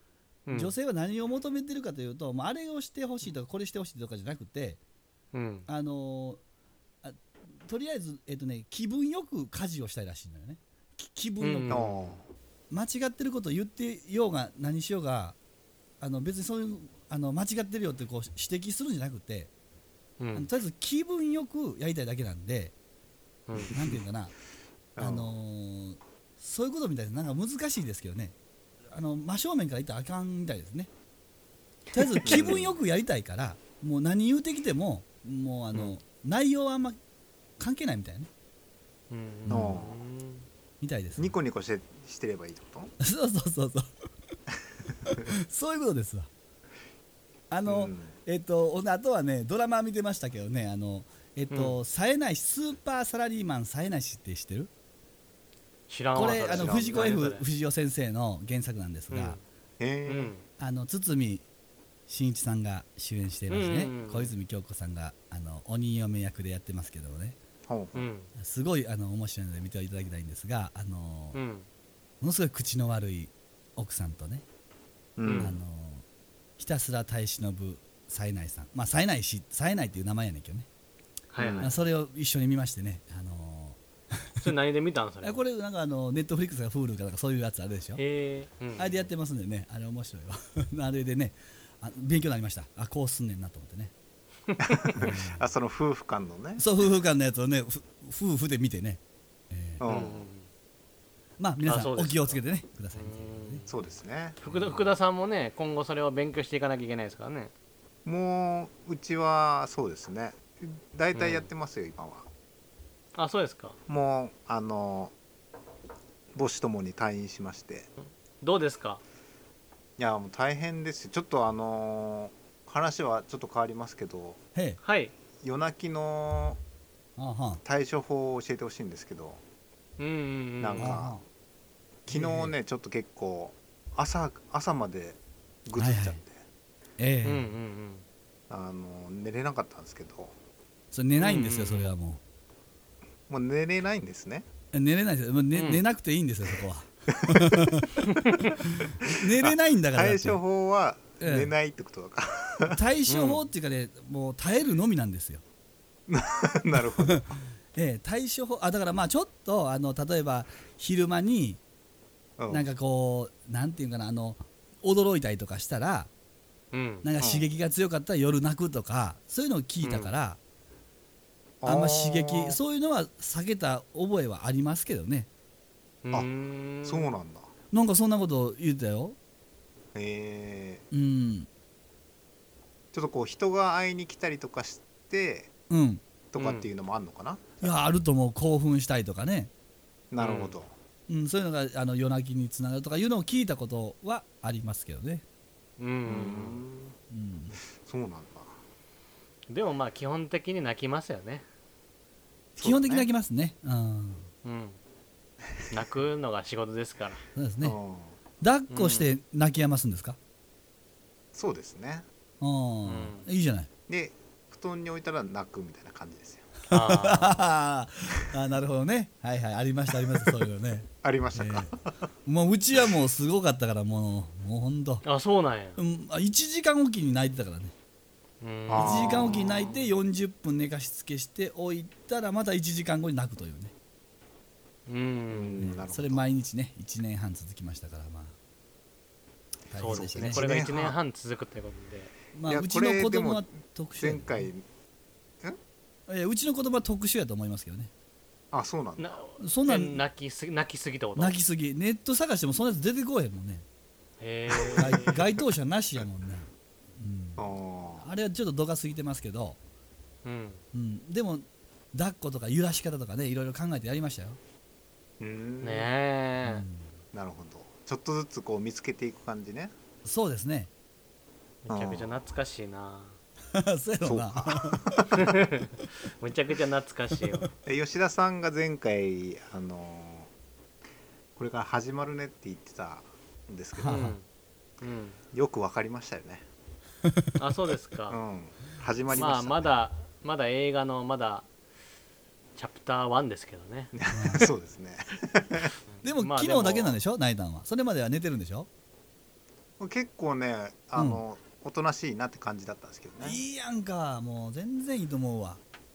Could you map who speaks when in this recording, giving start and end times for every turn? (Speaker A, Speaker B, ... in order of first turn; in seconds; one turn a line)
Speaker A: 0.5-0.7
Speaker B: 0.5-4.8
Speaker A: 5.3-5.7
Speaker B: 5.7-6.4
Speaker B: 7.0-11.9
Speaker A: 11.4-11.9
Speaker C: 11.7-12.2
Speaker B: 12.7-15.4
Speaker B: 16.0-19.5
Speaker A: 20.2-20.5
Speaker B: 20.4-22.7
Speaker A: 23.5-23.7
Speaker C: 23.6-23.9
Speaker B: 23.7-24.3
Speaker C: 25.0-25.3
Speaker B: 25.0-28.4
Speaker B: 28.9-30.9
Speaker B: 31.9-37.0
Speaker C: 32.2-32.8
Speaker B: 37.6-38.3
Speaker A: 39.1-40.5
Speaker B: 39.5-39.7
Speaker C: 39.5-40.0
Speaker B: 40.8-41.4
Speaker C: 41.2-42.9
Speaker B: 43.0-43.9
Speaker B: 45.1-46.3
Speaker B: 47.5-54.7
Speaker C: 47.7-48.1
Speaker A: 51.5-51.8
Speaker A: 55.9-57.4
Speaker C: 56.1-57.2
Speaker B: 56.1-59.4
Speaker A: 59.1-59.4
Speaker C: 59.8-60.3
Speaker A: 60.1-60.4
Speaker B: 60.6-61.4
Speaker B: 62.1-67.4
Speaker A: 63.5-64.3
Speaker C: 67.7-68.1
Speaker A: 68.0-68.3
Speaker B: 68.4-71.4
Speaker A: 71.3-71.7
Speaker B: 72.2-74.5
Speaker C: 75.2-75.6
Speaker A: 75.2-75.6
Speaker B: 75.4-76.0
Speaker B: 76.6-80.7
Speaker A: 81.3-81.7
Speaker C: 81.4-81.7
Speaker B: 81.6-83.8
Speaker A: 84.4-85.4
Speaker B: 85.2-88.0
Speaker A: 88.0-89.1
Speaker B: 88.8-93.9
Speaker A: 94.5-95.0
Speaker C: 94.6-96.7
Speaker B: 95.0-95.4
Speaker B: 96.6-99.8
Speaker C: 99.8-100.2
Speaker A: 99.8-100.5
Speaker B: 101.4-103.6
Speaker A: 101.7-102.4
Speaker A: 103.0-103.7
Speaker C: 103.7-104.4
Speaker A: 104.4-107.5
Speaker B: 104.5-104.8
Speaker C: 108.0-112.3
Speaker A: 111.1-111.5
Speaker A: 113.2-113.8
Speaker C: 113.9-115.1
Speaker C: 116.3-117.9
Speaker A: 118.0-119.0
Speaker C: 120.0-124.4
Speaker B: 124.5-124.8
Speaker A: 124.8-125.1
Speaker C: 125.4-126.6
Speaker B: 127.2-127.6
Speaker C: 127.6-129.4
Speaker A: 130.0-131.0
Speaker C: 130.6-131.1
Speaker B: 130.8-131.2
Speaker C: 132.1-136.4
Speaker B: 132.1-132.5
Speaker B: 135.8-136.2
Speaker B: 137.0-137.5
Speaker A: 137.2-138.1
Speaker C: 138.5-140.3
Speaker B: 140.9-142.2
Speaker A: 141.2-141.9
Speaker C: 143.3-144.5
Speaker B: 144.7-148.1
Speaker A: 145.5-145.8
Speaker C: 147.1-147.7
Speaker A: 148.0-148.6
Speaker C: 148.5-152.8
Speaker B: 148.6-150.4
Speaker B: 151.2-151.5
Speaker B: 152.7-155.4
Speaker A: 153.1-153.4
Speaker C: 156.1-157.3
Speaker B: 156.8-161.6
Speaker C: 162.4-162.7
Speaker B: 162.5-166.1
Speaker A: 166.7-167.1
Speaker B: 167.0-170.4
Speaker C: 167.2-167.5
Speaker A: 169.8-170.1
Speaker C: 171.6-172.6
Speaker B: 171.7-175.3
Speaker A: 176.1-177.1
Speaker C: 176.8-177.5
Speaker B: 177.7-179.2
Speaker C: 179.9-180.8
Speaker B: 180.9-181.5
Speaker C: 182.9-185.5
Speaker B: 185.7-186.0
Speaker C: 186.3-187.7
Speaker A: 186.4-186.7
Speaker B: 187.6-189.5
Speaker C: 190.1-190.7
Speaker A: 190.2-190.6
Speaker B: 191.1-195.2
Speaker A: 195.8-196.6
Speaker C: 196.1-196.9
Speaker B: 197.1-197.6
Speaker C: 197.8-198.6
Speaker A: 199.5-201.4
Speaker C: 202.6-203.1
Speaker B: 202.6-204.3
Speaker A: 204.4-204.8
Speaker A: 205.7-207.2
Speaker B: 207.3-207.8
Speaker C: 207.6-208.2
Speaker B: 208.4-210.2
Speaker A: 208.7-209.1
Speaker C: 211.3-212.1
Speaker B: 212.4-213.7
Speaker A: 212.8-213.3
Speaker C: 213.9-216.5
Speaker A: 216.7-217.4
Speaker B: 216.7-221.7
Speaker C: 221.0-221.9
Speaker B: 222.3-225.0
Speaker A: 225.0-225.8
Speaker B: 225.8-227.7
Speaker A: 228.4-229.8
Speaker C: 228.7-229.7
Speaker B: 228.8-233.7
Speaker A: 234.9-235.7
Speaker C: 235.3-236.2
Speaker B: 235.6-238.3
Speaker B: 239.7-240.5
Speaker A: 239.8-242.1
Speaker C: 239.9-241.0
Speaker B: 242.3-244.5
Speaker C: 242.5-244.7
Speaker B: 246.1-247.9
Speaker C: 248.5-249.2
Speaker A: 249.0-251.4
Speaker B: 249.4-250.0
Speaker B: 251.2-253.7
Speaker A: 254.2-255.2
Speaker C: 254.5-255.0
Speaker B: 254.8-257.5
Speaker C: 257.4-258.1
Speaker B: 258.0-259.6
Speaker A: 260.2-260.6
Speaker B: 260.7-264.4
Speaker C: 265.2-265.9
Speaker A: 265.6-266.7
Speaker B: 266.4-266.9
Speaker C: 267.1-269.7
Speaker B: 270.1-270.7
Speaker A: 271.6-273.2
Speaker C: 271.7-272.2
Speaker B: 273.5-275.0
Speaker C: 274.0-275.2
Speaker A: 275.1-277.5
Speaker C: 277.6-280.3
Speaker C: 281.4-284.1
Speaker B: 283.8-284.1
Speaker A: 283.9-284.2
Speaker A: 284.8-285.2
Speaker C: 285.3-286.4
Speaker B: 287.1-287.3
Speaker A: 287.4-288.2
Speaker C: 288.1-289.7
Speaker A: 289.1-291.5
Speaker A: 292.6-293.9
Speaker C: 293.9-295.7
Speaker B: 294.1-294.5
Speaker A: 295.9-297.0
Speaker B: 296.0-298.7
Speaker C: 299.8-303.4
Speaker B: 301.0-301.2
Speaker B: 303.2-305.6